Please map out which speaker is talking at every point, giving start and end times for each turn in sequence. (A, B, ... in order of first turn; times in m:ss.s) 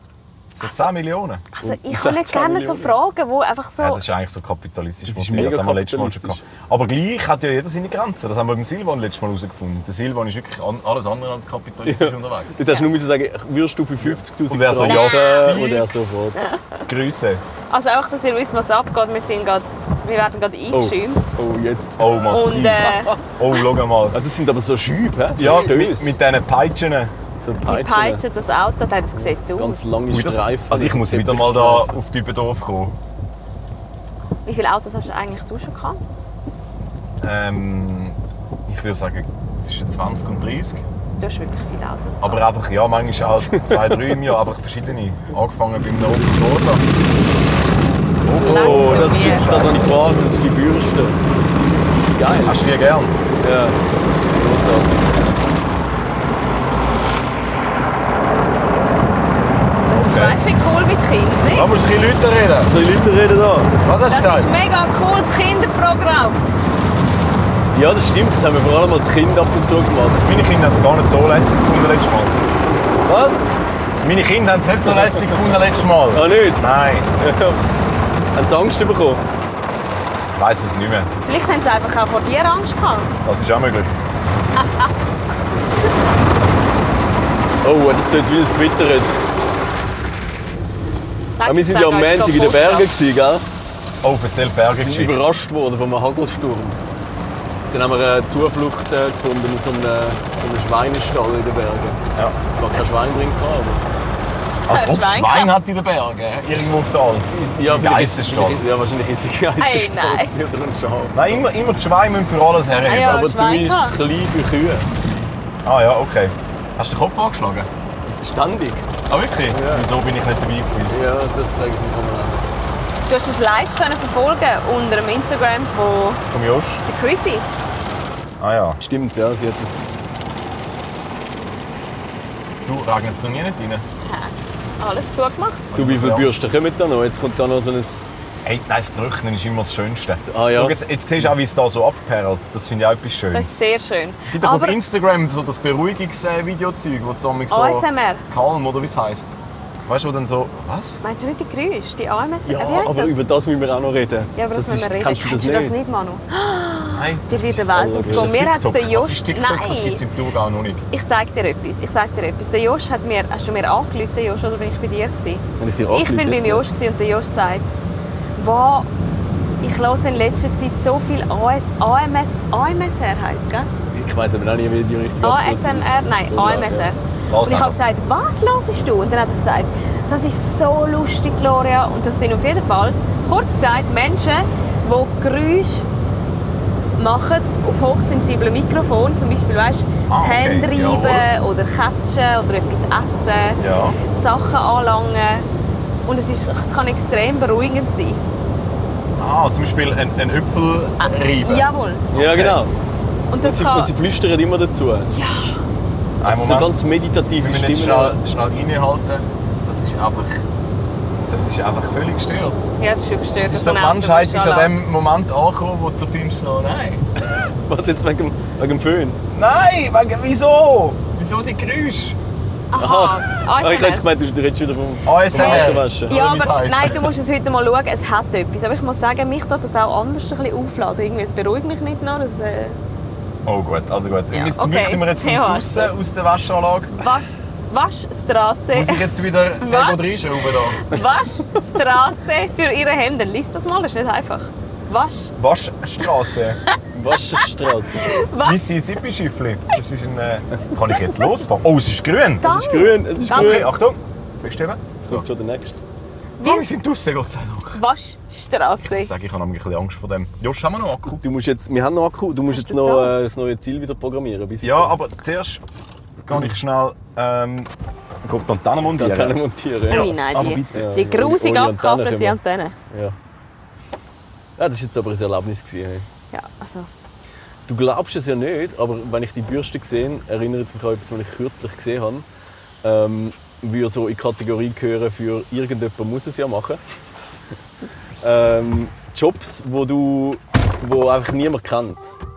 0:00.6-0:01.4 A
0:01.5-0:04.0 B
0:01.6-0:03.0 C
0:03.8-0:12.6 A
0:05.1-0:06.4 C
0:11.8-0:16.4 C
0:12.6-0:12.9 B
0:14.0-0:16.3 A
0:14.8-0:15.4 B
0:16.4-0:16.8 B
0:16.9-0:17.4 A
0:17.7-0:21.3 B
0:20.7-0:22.3 C
0:22.0-0:24.2 A
0:22.3-0:23.2 B
0:22.9-0:23.2 C
0:24.1-0:26.2 C
0:25.4-0:27.1 A
0:27.4-0:28.2 C
0:27.6-0:29.9 B
0:29.1-0:32.0 C
0:30.1-0:33.0 A
0:34.4-0:36.0 B
0:37.2-0:40.8 A
0:41.2-0:42.4 B
0:42.2-0:46.8 A
0:43.5-0:44.2 C
0:48.2-0:50.1 A
0:48.4-0:49.6 B
0:48.4-0:51.2 C
0:51.8-0:52.6 C
0:52.4-0:53.2 A
0:53.4-0:53.8 C
0:54.3-0:54.9 C
0:59.8-1:01.7 B
0:59.9-1:00.4 A
1:01.4-1:02.7 A
1:02.6-1:03.7 C
1:03.8-1:04.5 A
1:04.1-1:06.4 B
1:07.7-1:10.2 C
1:10.2-1:12.4 A
1:13.0-1:13.5 C
1:14.0-1:17.1 A
1:14.9-1:15.3 C
1:16.1-1:17.6 C
1:18.3-1:19.2 C
1:20.4-1:21.1 A
1:21.2-1:23.1 B
1:23.2-1:24.0 A
1:27.6-1:29.2 C
1:31.4-1:32.9 B
1:31.4-1:33.4 C
1:34.0-1:35.2 A
1:34.7-1:36.8 C
1:37.7-1:43.8 C
1:44.7-1:48.6 A
1:44.7-1:45.5 B
1:47.3-1:51.4 C
1:49.6-1:50.3 B
1:51.1-1:53.3 A
1:52.8-1:54.0 B
1:53.0-1:54.9 C
1:55.6-1:57.7 A
1:58.0-1:58.9 C
1:59.1-2:00.9 A
1:59.5-1:59.9 C
2:00.9-2:02.5 C
2:03.1-2:06.2 B
2:06.3-2:06.8 A
2:06.9-2:07.4 B
2:08.4-2:08.8 A
2:08.8-2:09.9 C
2:12.6-2:13.8 A
2:14.0-2:15.6 B
2:15.7-2:16.4 A
2:15.7-2:18.0 C
2:18.4-2:23.6 A
2:20.3-2:20.8 C
2:23.3-2:24.8 B
2:24.2-2:31.0 A
2:27.5-2:28.2 B
2:31.0-2:33.2 B
2:32.4-2:35.8 C
2:34.4-2:40.0 B
2:36.8-2:40.8 A
2:37.7-2:38.4 C
2:40.9-2:47.7 B
2:45.6-2:46.7 C
2:48.4-2:48.9 B
2:49.6-2:53.7 B
2:53.9-2:56.9 C
2:55.2-3:05.8 B
2:57.3-2:57.8 A
3:07.0-3:15.4 B
3:10.1-3:11.3 A
3:13.6-3:14.0 A
3:16.1-3:18.2 B
3:19.2-3:22.6 A
3:21.0-3:22.1 B
3:22.1-3:22.7 C
3:23.3-3:23.9 B
3:23.4-3:25.1 C
3:25.1-3:25.6 B
3:26.2-3:26.7 A
3:26.2-3:28.2 C
3:27.3-3:30.4 A
3:31.3-3:32.7 A
3:32.8-3:34.7 B
3:33.4-3:37.0 A
3:37.2-3:39.2 C
3:39.3-3:42.2 A
3:42.7-3:44.0 B
3:42.8-3:46.1 C
3:45.0-3:47.1 A
3:45.3-3:52.8 B
3:53.4-3:57.0 A
3:54.3-3:55.9 B
3:57.0-3:59.0 B
3:58.7-4:01.0 A
3:59.6-4:05.3 B
4:05.4-4:06.6 A
4:06.9-4:08.1 C
4:08.0-4:08.7 B
4:08.4-4:12.5 A
4:12.4-4:13.7 B
4:12.4-4:13.8 C
4:13.3-4:15.3 A
4:15.0-4:15.8 C
4:16.4-4:16.7 B
4:16.4-4:17.8 A
4:17.7-4:19.1 B
4:18.8-4:21.2 A
4:21.2-4:25.0 C
4:22.5-4:23.1 B
4:24.6-4:25.6 A
4:26.2-4:27.7 A
4:28.2-4:30.7 A
4:29.0-4:30.1 C
4:29.9-4:32.8 B
4:30.7-4:32.4 C
4:32.9-4:33.2 C
4:34.6-4:36.1 C
4:36.3-4:36.9 B
4:37.7-4:42.2 C
4:42.8-4:46.8 C
4:48.2-4:52.1 C